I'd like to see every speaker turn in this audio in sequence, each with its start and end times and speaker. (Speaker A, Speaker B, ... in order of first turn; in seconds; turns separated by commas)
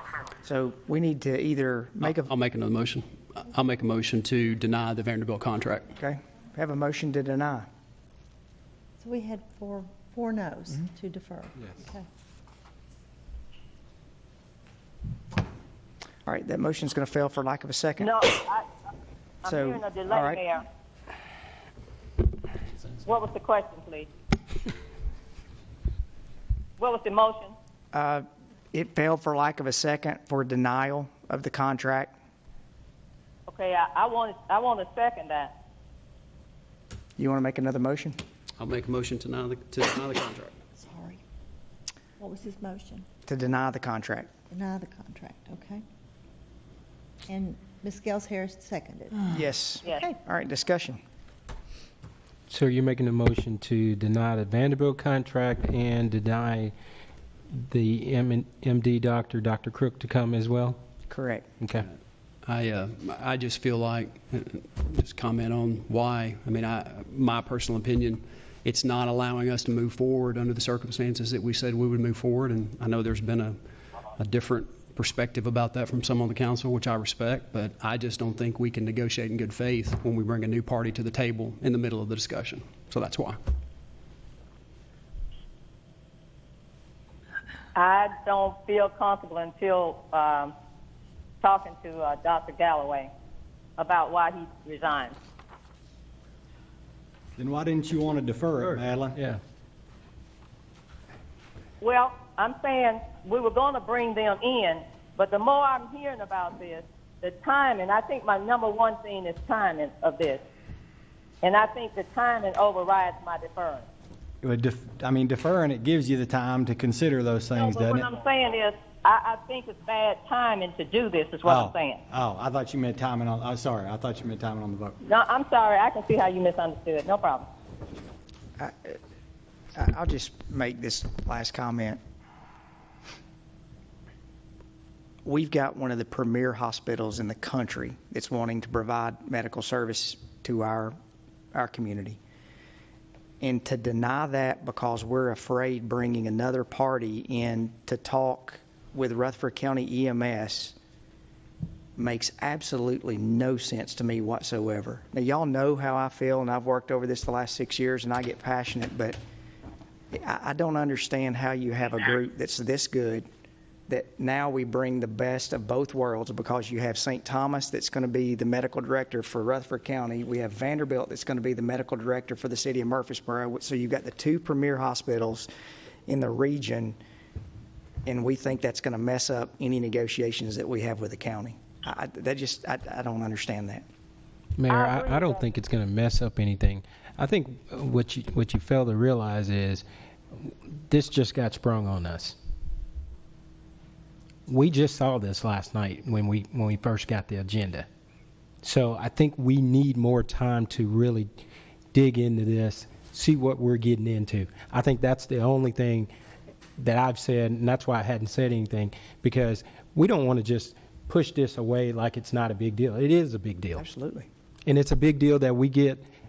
Speaker A: 0.4-2.3, Speaker B: 2.0-5.9, Speaker A: 6.0-7.7, Speaker C: 9.0-12.1, Speaker A: 16.2-18.2, Speaker D: 18.0-18.6, Speaker D: 19.4-20.6, Speaker A: 19.4-20.4, Speaker D: 23.0-24.1, Speaker D: 26.8-27.5, Speaker A: 27.9-32.1, Speaker D: 33.5-35.5, Speaker A: 37.2-38.2, Speaker B: 38.6-40.5, Speaker C: 40.8-41.2, Speaker C: 42.2-43.0, Speaker A: 43.3-44.3, Speaker C: 44.5-45.8, Speaker C: 47.3-49.3, Speaker A: 49.3-51.0, Speaker E: 52.5-56.7, Speaker E: 57.5-60.8, Speaker A: 61.1-61.5, Speaker E: 61.6-61.9, Speaker B: 62.4-73.6, Speaker B: 74.1-83.4, Speaker D: 87.8-90.5, Speaker D: 91.4-93.1, Speaker D: 93.8-95.1, Speaker F: 97.4-99.2, Speaker E: 99.1-99.4, Speaker D: 101.8-110.4, Speaker D: 111.4-113.8, Speaker F: 114.4-118.1, Speaker D: 117.6-122.0, Speaker F: 121.4-125.0, Speaker D: 125.0-127.4, Speaker A: 128.6-129.0, Speaker A: 129.7-132.0, Speaker A: 135.2-140.9, Speaker A: 141.5-142.2, Speaker A: 143.4-150.7, Speaker A: 152.0-159.2, Speaker A: 160.1-163.3, Speaker A: 163.9-175.5, Speaker A: 176.1-177.0, Speaker A: 178.1-183.8, Speaker E: 184.6-189.8, Speaker D: 184.7-185.3, Speaker E: 190.3-192.3, Speaker E: 194.5-197.9, Speaker E: 198.6-201.3, Speaker E: 201.9-206.1, Speaker E: 206.8-213.8, Speaker A: 213.8-214.3, Speaker E: 214.7-216.0